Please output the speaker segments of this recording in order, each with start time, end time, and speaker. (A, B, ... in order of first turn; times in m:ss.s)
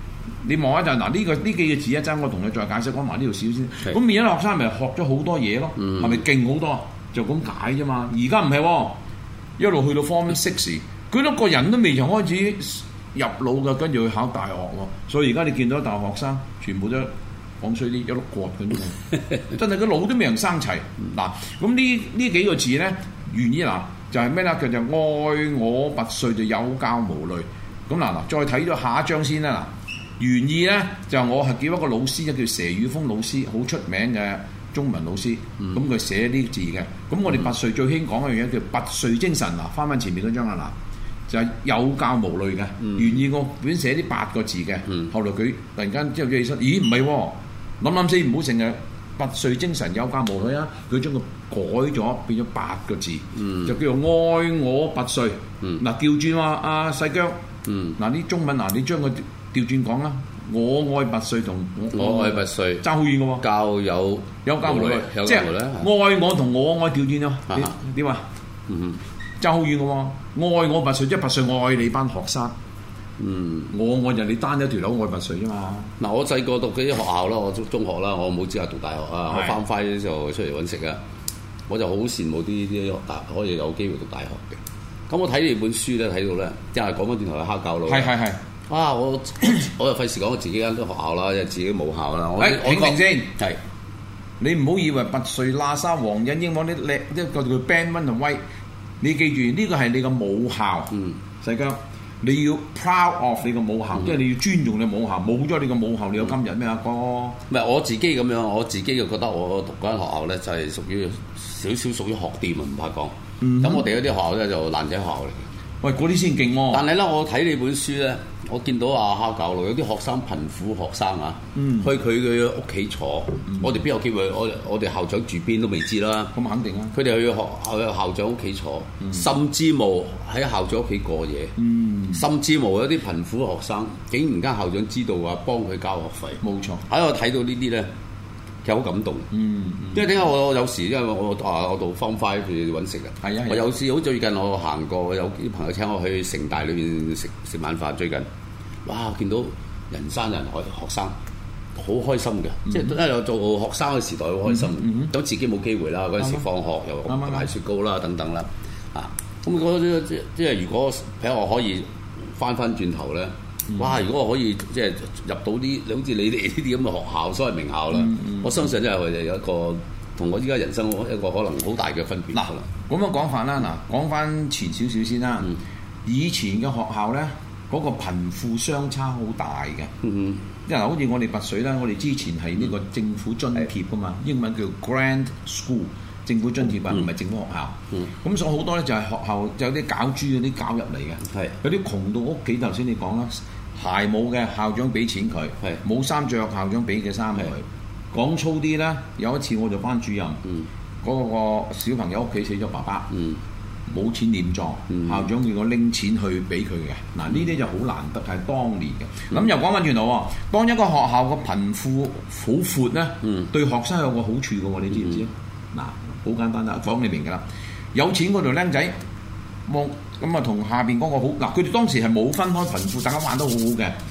0:00.4-0:09.0 A
0:05.8-0:06.2 B
0:09.6-0:17.1 A
0:17.6-0:40.7 A
0:41.3-0:57.4 A
0:42.8-0:43.1 B
0:53.4-0:53.7 B
0:57.6-0:58.0 B
0:58.0-1:03.4 A
1:01.9-1:02.8 B
1:03.4-1:05.9 B
1:04.4-1:08.3 A
1:08.7-1:09.0 B
1:09.4-1:12.5 A
1:13.2-1:13.7 B
1:13.7-1:15.9 A
1:16.0-1:21.0 B
1:19.3-1:19.6 A
1:21.7-1:28.1 B
1:27.9-1:28.4 A
1:28.7-1:33.6 B
1:32.4-1:33.3 A
1:34.4-1:38.4 A
1:39.0-1:47.4 A
1:47.5-1:55.4 B
1:53.4-1:53.9 A
1:55.8-1:56.8 A
1:56.7-2:06.3 B
2:01.5-2:01.9 A
2:06.3-2:07.0 A
2:06.9-2:11.6 B
2:11.6-2:12.2 A
2:12.1-2:17.9 B
2:16.4-2:16.8 A
2:18.6-2:19.3 B
2:19.3-2:20.1 A
2:19.9-2:28.3 B
2:23.2-2:23.6 A
2:28.8-2:31.1 B
2:31.8-2:52.7 B
2:32.7-2:32.9 A
2:34.4-2:35.1 A
2:36.2-2:36.4 A
2:37.1-2:37.5 A
2:47.9-2:48.6 A
2:52.3-2:55.5 A
2:56.0-2:59.9 A
3:00.0-3:00.4 B
3:00.7-3:20.4 A
3:11.2-3:11.5 B
3:21.0-3:23.1 A
3:23.1-3:23.4 B
3:23.9-3:37.4 A
3:24.9-3:25.2 B
3:33.2-3:33.5 B
3:37.9-3:38.9 A
3:39.7-3:43.9 A